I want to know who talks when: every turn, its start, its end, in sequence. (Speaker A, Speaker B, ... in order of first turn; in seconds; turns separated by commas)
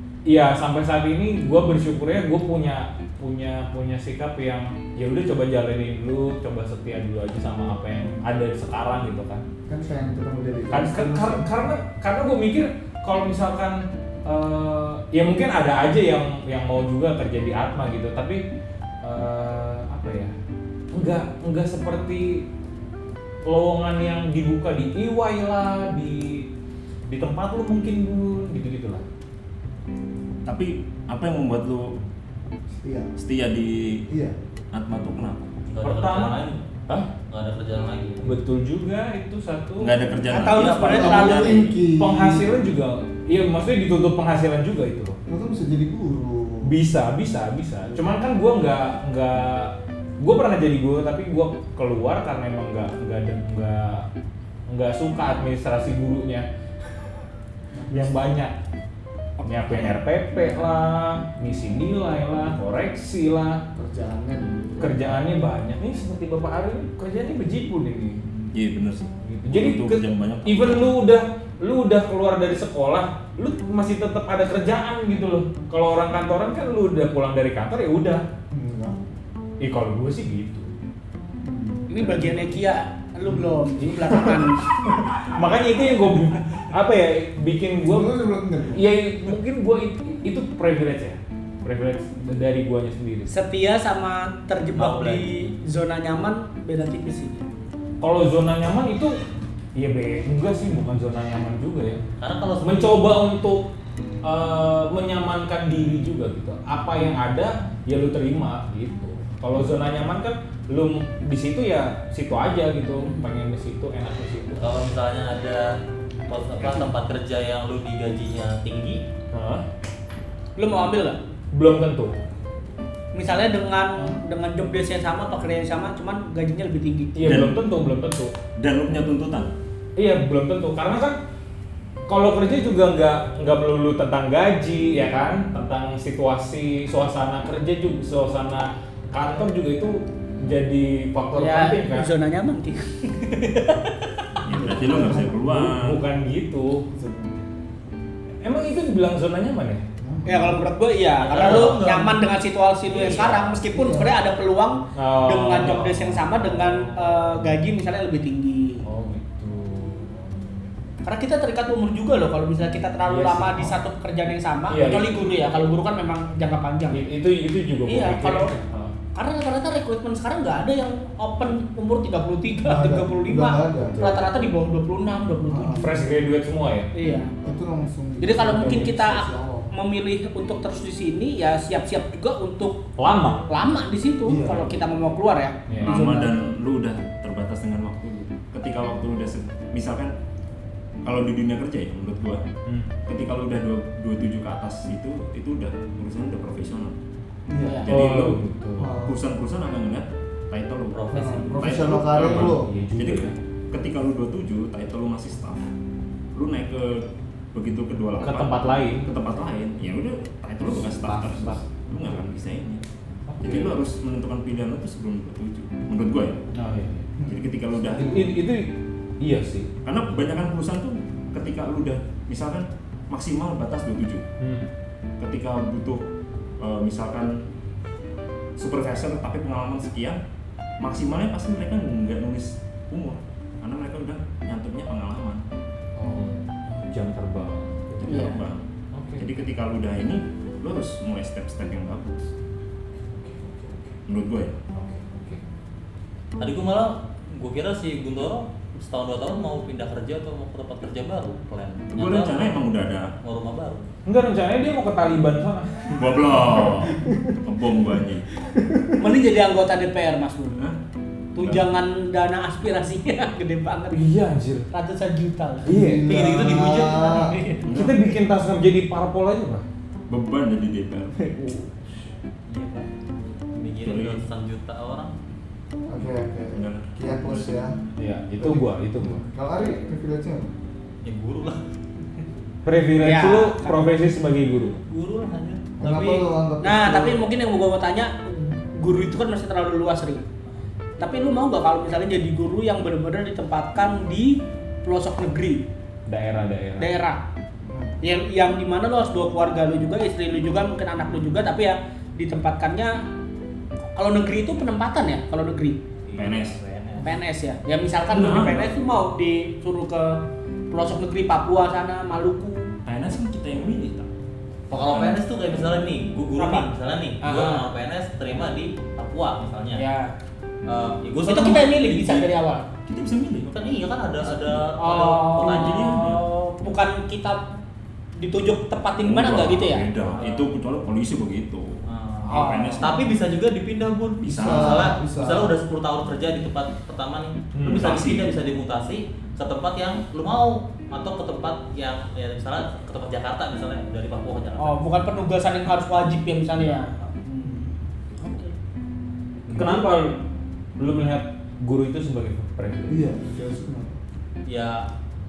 Speaker A: 0.3-9.4, Speaker B: 9.7-11.6, Speaker A: 10.7-18.4, Speaker A: 19.0-20.3, Speaker A: 20.9-22.4, Speaker A: 23.4-26.5, Speaker A: 27.1-29.0, Speaker C: 30.4-31.9, Speaker B: 32.8-33.1, Speaker C: 33.2-34.0, Speaker B: 34.1-34.3, Speaker C: 34.7-35.5, Speaker D: 35.7-36.7, Speaker A: 35.8-37.1, Speaker D: 37.3-38.4, Speaker A: 38.2-39.9, Speaker C: 39.8-41.8, Speaker E: 40.3-41.6, Speaker D: 40.5-41.1, Speaker B: 40.8-42.5, Speaker A: 42.0-45.2, Speaker B: 45.3-46.8, Speaker A: 46.6-54.1, Speaker A: 54.7-56.5, Speaker B: 57.7-58.3, Speaker A: 57.9-58.5, Speaker A: 59.4-63.6, Speaker B: 63.7-65.1, Speaker A: 64.8-68.2, Speaker C: 68.5-71.0, Speaker A: 69.2-78.2, Speaker B: 78.5-79.0, Speaker A: 79.6-80.7, Speaker B: 81.4-82.4, Speaker E: 81.9-84.6, Speaker B: 83.2-83.7, Speaker A: 83.8-84.4, Speaker A: 85.2-88.1, Speaker B: 87.8-88.9, Speaker A: 88.7-93.3, Speaker E: 93.3-97.4, Speaker D: 94.7-95.5, Speaker A: 98.0-99.2, Speaker A: 99.7-102.0, Speaker D: 102.2-103.1, Speaker A: 102.6-103.7, Speaker A: 104.2-114.6, Speaker D: 114.6-115.8, Speaker D: 116.3-119.0, Speaker A: 119.3-119.6, Speaker E: 120.5-121.2, Speaker A: 121.5-122.1, Speaker E: 123.1-127.2, Speaker A: 127.1-128.3, Speaker C: 127.2-127.6, Speaker C: 128.6-129.5, Speaker A: 130.0-131.2, Speaker A: 132.1-142.1, Speaker E: 141.3-143.9, Speaker B: 144.4-145.5, Speaker C: 144.4-146.0, Speaker A: 145.4-146.9, Speaker B: 146.9-147.3, Speaker A: 148.4-149.8, Speaker B: 150.0-150.7, Speaker E: 150.2-158.8, Speaker D: 151.2-152.2, Speaker A: 151.4-151.8, Speaker D: 152.8-153.6, Speaker B: 153.7-154.2, Speaker A: 154.9-157.5, Speaker A: 158.8-160.7, Speaker E: 161.0-167.0, Speaker A: 163.1-163.8, Speaker A: 164.7-165.2, Speaker A: 166.9-168.9, Speaker E: 167.8-168.5, Speaker E: 169.1-175.8, Speaker B: 172.6-174.0, Speaker A: 173.8-174.2, Speaker B: 175.5-176.0, Speaker A: 175.8-176.9, Speaker E: 176.9-177.3, Speaker B: 177.4-179.7, Speaker E: 178.2-182.8, Speaker A: 178.5-178.9, Speaker A: 183.0-183.5, Speaker E: 183.5-186.1, Speaker B: 184.2-184.8, Speaker A: 185.7-186.0, Speaker C: 185.8-190.1, Speaker B: 185.8-186.3, Speaker C: 191.0-192.4, Speaker C: 193.1-196.9, Speaker B: 197.5-197.9, Speaker E: 197.6-197.9, Speaker C: 197.8-198.4, Speaker A: 197.9-198.9, Speaker B: 198.8-199.2, Speaker C: 198.9-205.7, Speaker D: 200.9-201.9, Speaker B: 201.1-202.7, Speaker A: 202.1-203.3, Speaker C: 206.3-212.8, Speaker A: 208.2-209.1, Speaker A: 210.7-211.6, Speaker A: 213.3-213.8, Speaker C: 213.4-216.4, Speaker A: 216.5-217.1, Speaker B: 217.2-217.5, Speaker C: 217.2-218.3, Speaker A: 217.9-219.7, Speaker C: 219.8-224.2, Speaker A: 224.4-224.7, Speaker C: 225.2-226.0, Speaker C: 226.6-227.4, Speaker C: 228.6-230.2, Speaker C: 230.8-235.4, Speaker A: 236.0-238.3, Speaker C: 237.9-238.6, Speaker E: 238.1-238.4, Speaker A: 238.9-239.2, Speaker C: 239.2-242.3, Speaker A: 243.2-243.9, Speaker C: 244.1-244.6, Speaker A: 244.7-245.4, Speaker D: 246.4-252.6, Speaker C: 251.9-253.1, Speaker D: 253.2-253.8, Speaker A: 254.1-256.9, Speaker C: 255.9-258.2, Speaker E: 259.0-260.6, Speaker E: 261.3-264.0, Speaker C: 261.4-261.6, Speaker A: 263.9-264.7, Speaker E: 264.7-267.7, Speaker A: 265.6-266.1, Speaker B: 265.6-267.4, Speaker D: 266.1-267.2, Speaker C: 267.6-268.0, Speaker A: 267.7-269.6, Speaker C: 270.1-271.3, Speaker D: 272.5-272.9, Speaker D: 273.5-275.1, Speaker C: 273.8-274.2, Speaker B: 275.9-277.7, Speaker C: 276.0-277.6, Speaker A: 278.0-279.2, Speaker B: 278.4-280.5, Speaker D: 281.0-281.6, Speaker A: 282.6-284.8, Speaker E: 283.0-283.8, Speaker D: 284.9-285.8, Speaker B: 285.8-287.2, Speaker E: 285.8-290.2, Speaker E: 291.0-295.6, Speaker A: 296.1-296.9, Speaker E: 296.8-297.2, Speaker B: 297.6-298.0, Speaker E: 298.0-303.0, Speaker E: 303.9-305.8, Speaker D: 306.1-307.1, Speaker C: 306.1-306.6, Speaker E: 307.0-312.7, Speaker C: 308.1-308.7, Speaker C: 312.9-314.1, Speaker C: 314.7-315.2, Speaker D: 314.7-319.8, Speaker E: 316.4-316.7, Speaker E: 317.2-317.6, Speaker E: 319.8-320.1, Speaker D: 320.6-322.3, Speaker E: 321.2-322.6, Speaker C: 322.9-323.5, Speaker D: 323.4-326.2, Speaker E: 324.3-327.5, Speaker C: 325.4-326.2, Speaker E: 328.2-329.9, Speaker C: 329.0-333.0, Speaker D: 330.0-330.5, Speaker D: 331.9-344.8, Speaker E: 332.3-332.9, Speaker C: 334.2-334.9, Speaker B: 334.3-335.5, Speaker A: 337.5-337.9, Speaker C: 337.6-338.3, Speaker E: 344.6-347.6, Speaker E: 348.2-348.5, Speaker A: 349.5-350.2, Speaker A: 350.8-353.1, Speaker B: 352.9-354.0, Speaker D: 354.4-354.8